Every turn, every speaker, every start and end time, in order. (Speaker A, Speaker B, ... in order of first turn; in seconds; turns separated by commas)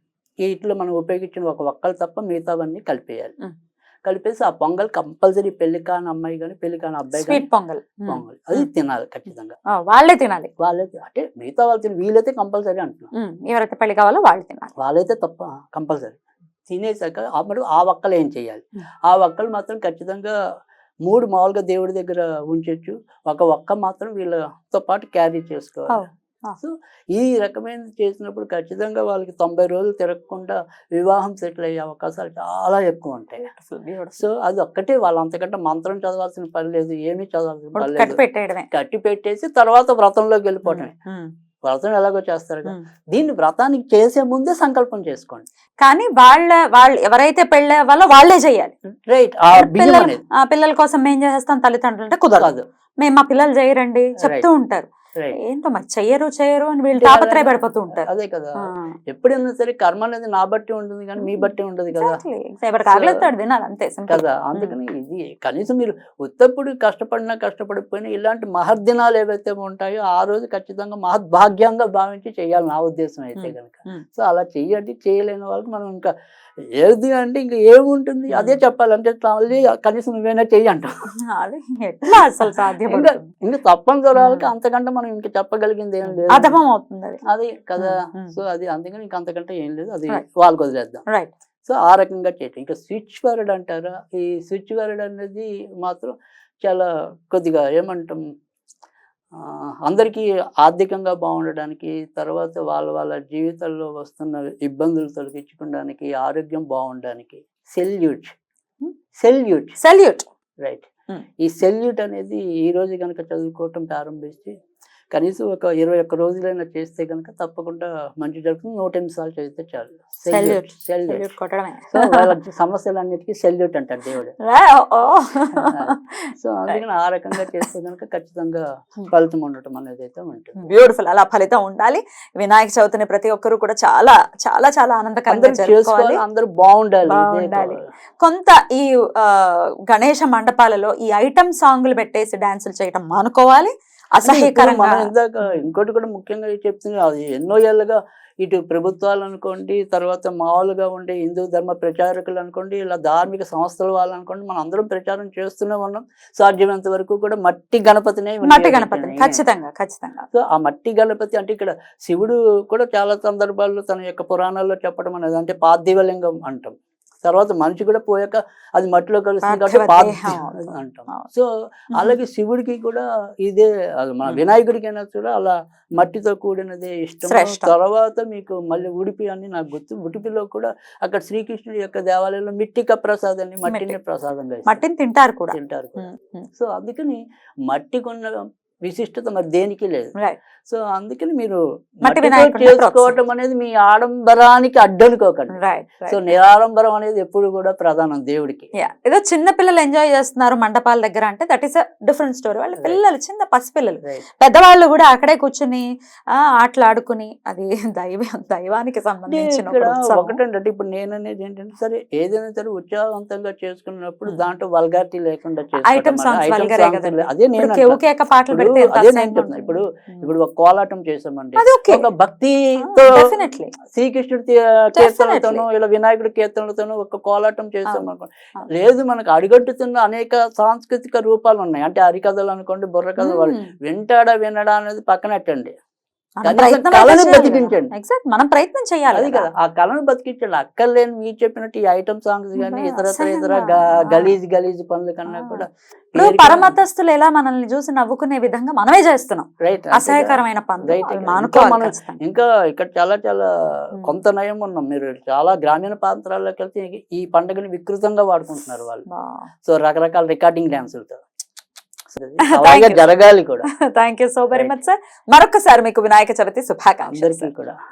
Speaker A: 0.4-3.3, Speaker A: 4.0-7.4, Speaker B: 7.2-8.7, Speaker A: 8.1-9.6, Speaker B: 9.7-10.5, Speaker A: 10.6-13.1, Speaker B: 13.1-14.7, Speaker A: 14.8-20.4, Speaker A: 21.1-26.1, Speaker B: 25.9-26.6, Speaker A: 26.6-33.6, Speaker B: 33.5-34.2, Speaker A: 34.1-40.9, Speaker B: 37.8-38.7, Speaker B: 40.6-41.3, Speaker A: 41.6-45.4, Speaker B: 45.8-48.7, Speaker A: 49.1-50.2, Speaker B: 49.5-52.5, Speaker A: 52.4-52.6, Speaker B: 53.0-54.9, Speaker A: 54.2-54.5, Speaker B: 55.4-58.1, Speaker A: 57.0-58.5, Speaker B: 58.6-59.0, Speaker A: 59.1-62.2, Speaker B: 61.9-64.8, Speaker A: 62.9-63.3, Speaker A: 64.1-80.9, Speaker B: 73.4-74.0, Speaker B: 81.3-83.2, Speaker A: 82.9-86.6, Speaker B: 84.2-84.5, Speaker B: 86.3-87.2, Speaker A: 87.2-91.0, Speaker B: 87.8-88.3, Speaker A: 91.6-98.2, Speaker A: 99.3-108.3, Speaker A: 109.1-109.8, Speaker B: 109.8-110.3, Speaker A: 110.6-110.9, Speaker A: 111.4-114.5, Speaker A: 115.1-121.3, Speaker B: 120.3-122.3, Speaker A: 121.9-124.3, Speaker B: 124.5-126.8, Speaker A: 125.5-130.8, Speaker B: 127.3-127.7, Speaker B: 130.6-136.2, Speaker A: 135.3-137.8, Speaker B: 137.1-145.1, Speaker A: 144.2-159.4, Speaker B: 158.4-160.2, Speaker A: 160.3-184.8, Speaker B: 169.4-171.3, Speaker B: 177.3-177.7, Speaker B: 183.7-183.9, Speaker B: 184.7-186.4, Speaker A: 185.5-190.1, Speaker A: 190.7-198.7, Speaker B: 192.0-193.2, Speaker B: 195.5-196.3, Speaker B: 198.8-210.4, Speaker A: 202.7-203.0, Speaker A: 209.3-235.7, Speaker B: 215.8-219.8, Speaker B: 221.6-222.1, Speaker B: 222.9-223.8, Speaker B: 225.0-225.6, Speaker B: 233.2-233.7, Speaker A: 236.4-237.9, Speaker B: 236.4-239.5, Speaker A: 239.1-246.8, Speaker B: 242.6-243.6, Speaker B: 245.3-245.6, Speaker B: 246.2-252.2, Speaker A: 249.6-259.0, Speaker B: 259.1-259.5, Speaker A: 259.6-261.2, Speaker A: 262.1-263.7, Speaker B: 262.5-263.0, Speaker B: 263.7-267.5, Speaker A: 264.5-264.8, Speaker A: 267.1-267.8